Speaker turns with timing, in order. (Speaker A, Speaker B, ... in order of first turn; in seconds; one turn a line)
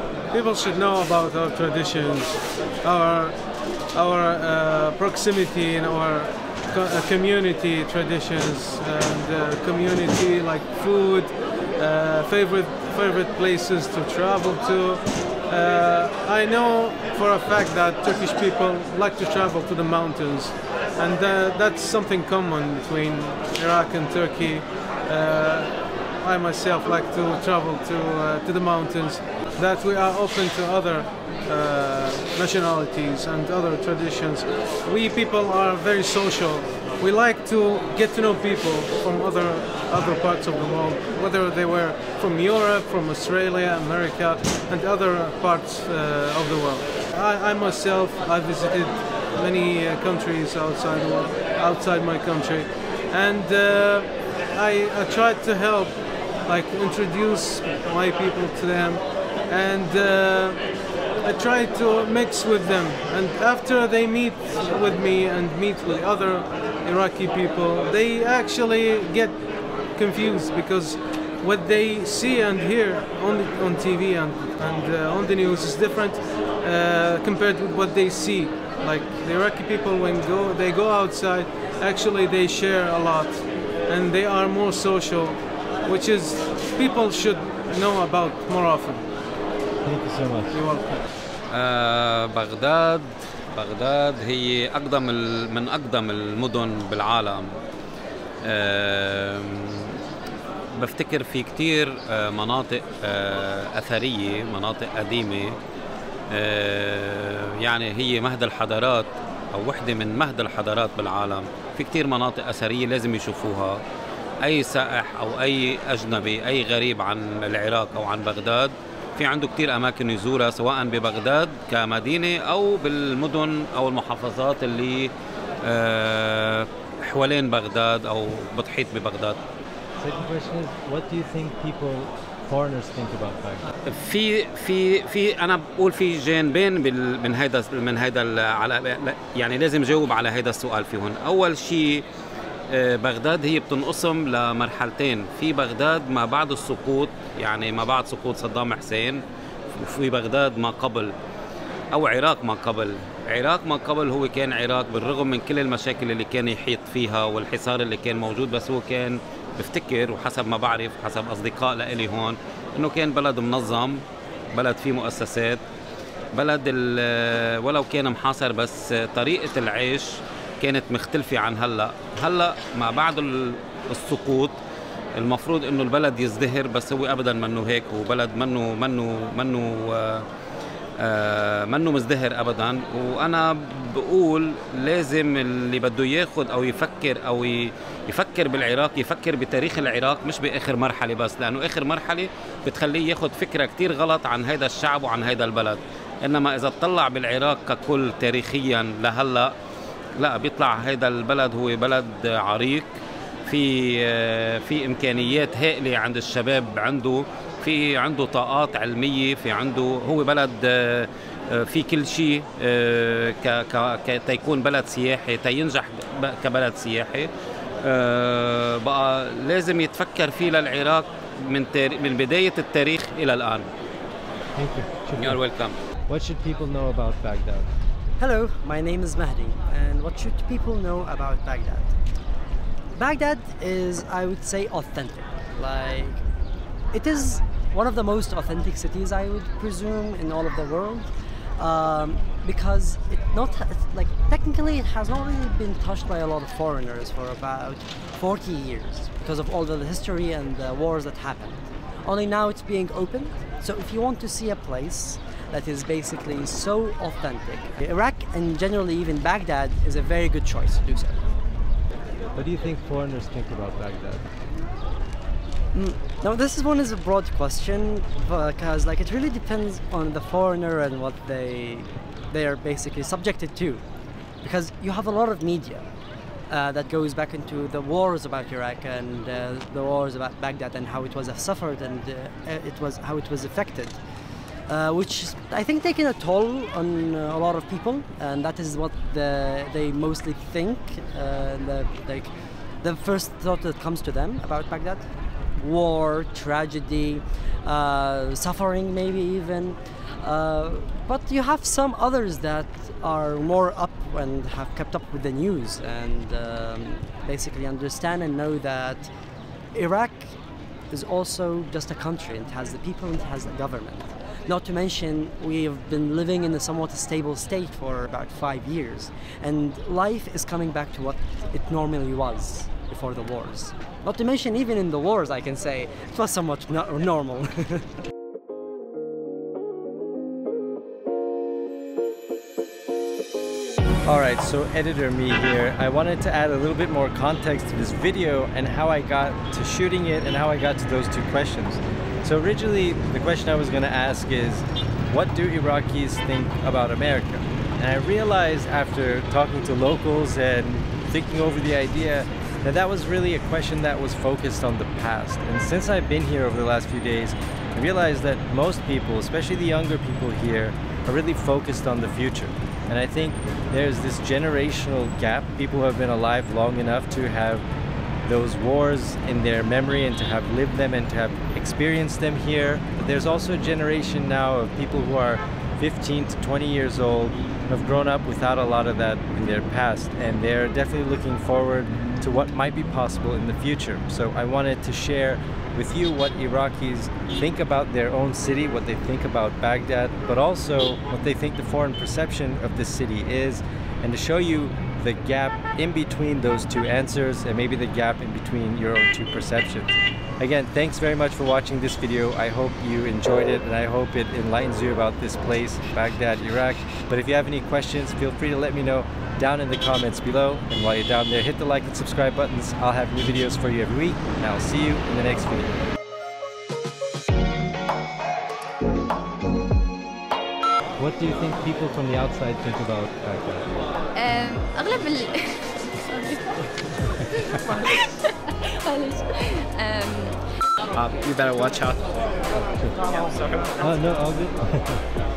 Speaker A: 0.3-8.0
Speaker A: 8.5-28.4
Speaker A: 29.1-59.6
Speaker A: 60.2-88.8
Speaker B: 89.8-90.6
Speaker A: 90.5-91.0
Speaker C: 91.5-97.5
Speaker C: 98.5-100.0
Speaker C: 100.8-105.6
Speaker C: 106.3-113.8
Speaker C: 114.4-125.1
Speaker C: 125.6-129.4
Speaker B: 130.0-133.7
Speaker C: 133.9-142.1
Speaker C: 142.7-149.2
Speaker C: 149.7-151.1
Speaker C: 151.9-164.0
Speaker C: 164.5-165.6
Speaker C: 166.3-174.6
Speaker C: 175.2-180.2
Speaker C: 181.0-199.5
Speaker C: 200.2-202.9
Speaker C: 203.5-217.3
Speaker C: 217.8-223.7
Speaker B: 224.6-225.4
Speaker C: 225.2-225.8
Speaker B: 226.1-227.7
Speaker D: 228.2-231.9
Speaker D: 232.9-236.2
Speaker D: 236.9-261.2
Speaker B: 262.3-264.2
Speaker D: 265.7-273.8
Speaker D: 274.4-275.9
Speaker D: 276.5-284.0
Speaker D: 284.7-309.1
Speaker D: 309.7-310.4
Speaker D: 310.9-327.9
Speaker B: 334.1-367.6
Speaker B: 368.2-415.8
Speaker B: 421.0-423.7
Speaker E: 424.1-426.4
Speaker E: 428.8-430.4
Speaker F: 430.9-434.0
Speaker B: 433.8-435.0